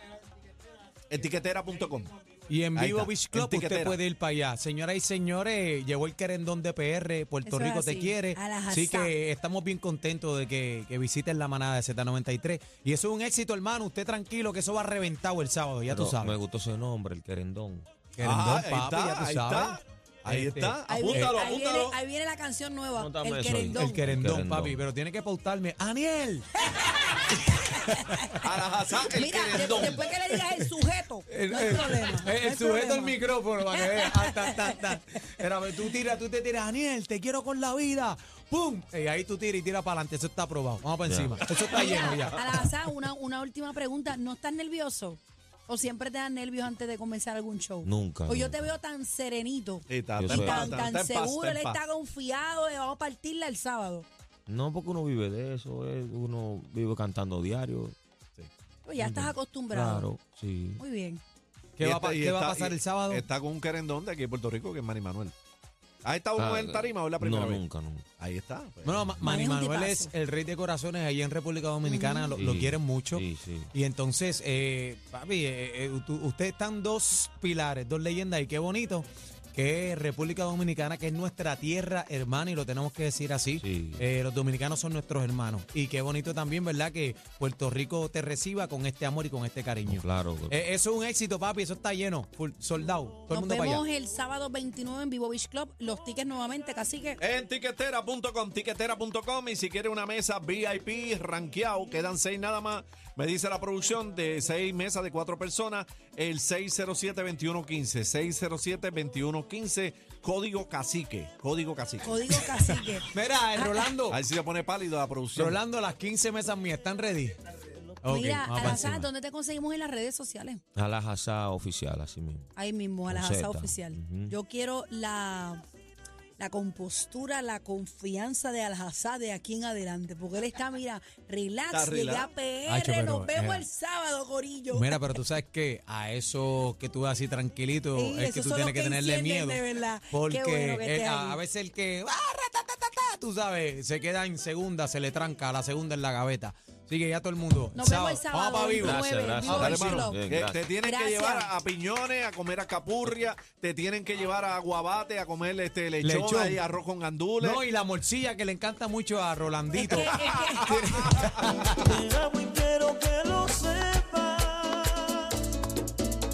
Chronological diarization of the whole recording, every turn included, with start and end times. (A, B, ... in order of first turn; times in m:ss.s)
0:01.1-0:02.1 A
0:02.5-0:16.4 B
0:02.7-0:04.0 A
0:07.4-0:09.1 C
0:15.9-0:18.1 D
0:18.1-0:21.3 B
0:18.2-0:22.0 A
0:20.9-0:24.0 C
0:23.0-0:24.8 D
0:23.7-0:28.4 B
0:26.7-0:28.0 C
0:28.4-0:30.0 A
0:29.1-0:34.8 C
0:31.3-0:42.7 B
0:41.0-0:41.4 D
0:41.7-0:54.1 C
0:47.8-0:48.7 D
0:49.9-0:51.8 A
0:50.2-0:50.9 D
0:54.5-0:58.0 D
0:58.8-1:00.1 C
0:59.0-1:00.8 D
1:00.8-1:01.2 C
1:01.8-1:03.2 B
1:01.8-1:05.3 A
1:06.0-1:07.6 A
1:06.4-1:08.0 D
1:08.2-1:09.1 A
1:08.8-1:33.8 B
1:09.2-1:10.1 C
1:11.8-1:12.4 C
1:12.3-1:13.7 D
1:23.6-1:24.0 D
1:29.8-1:30.6 D
1:33.3-1:37.2 C
1:37.2-1:52.4 A
1:52.0-1:53.9 C
1:52.6-1:54.2 B
1:54.1-1:55.6 A
1:55.3-1:57.4 B
1:58.0-1:59.1 B
1:58.0-2:00.6 C
2:00.8-2:02.5 D
2:02.6-2:05.6 C
2:03.1-2:04.4 D
2:06.4-2:15.1 C
2:11.7-2:12.3 A
2:12.6-2:13.6 B
2:14.7-2:30.0 B
2:17.9-2:21.4 C
2:27.7-2:30.2 C
2:28.8-2:30.6 D
2:29.6-2:37.6 A
2:30.8-2:31.5 C
2:36.0-2:36.6 B
2:37.4-2:42.0 B
2:39.8-2:40.8 C
2:40.1-2:41.3 A
2:41.6-2:45.3 E